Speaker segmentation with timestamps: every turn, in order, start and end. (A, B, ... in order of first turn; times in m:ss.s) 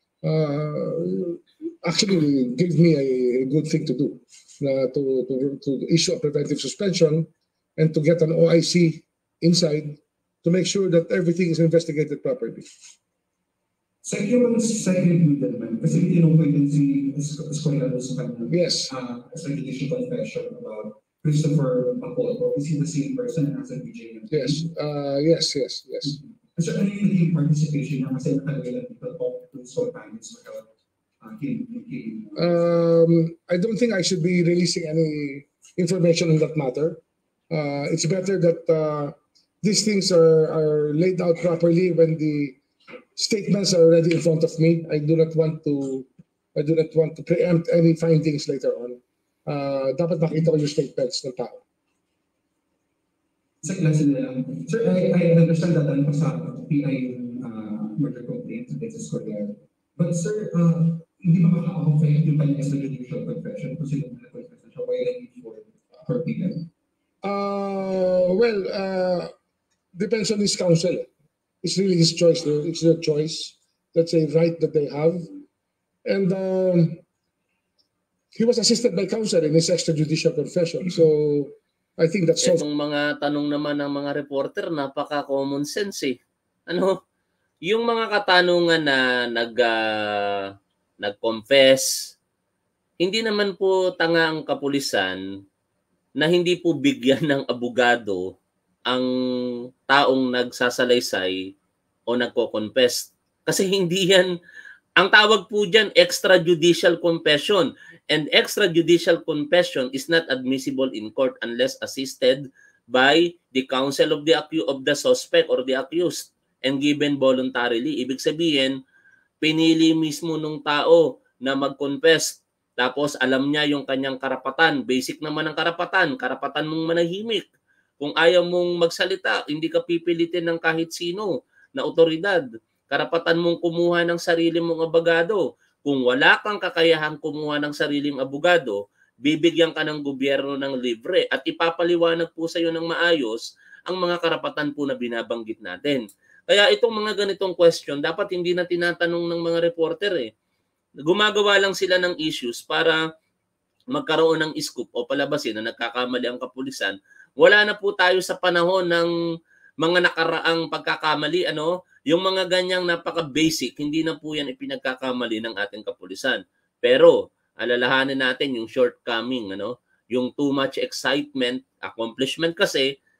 0:00.2-0:12.7 A
0:14.0-0:24.6 B
0:18.5-0:18.9 A
0:24.3-0:26.2 A
0:26.1-0:30.7 B
0:31.2-0:32.8 B
0:32.4-0:42.6 A
0:43.2-0:51.6 A
0:53.6-1:06.7 B
1:07.2-1:09.3 A
1:09.9-1:11.1 A
1:11.6-1:15.3 A
1:16.0-1:17.0 A
1:18.3-1:22.6 A
1:22.4-1:26.9 C
1:27.6-1:30.4 C
1:31.0-1:32.1 C
1:33.0-1:35.2 C
1:36.2-1:38.2 C
1:39.9-1:41.4 C
1:42.1-1:44.3 C
1:45.0-1:58.8 C
1:59.4-2:07.4 C
2:08.0-2:30.3 C
2:31.0-2:33.0 C
2:33.9-2:39.1 C
2:39.8-2:52.9 C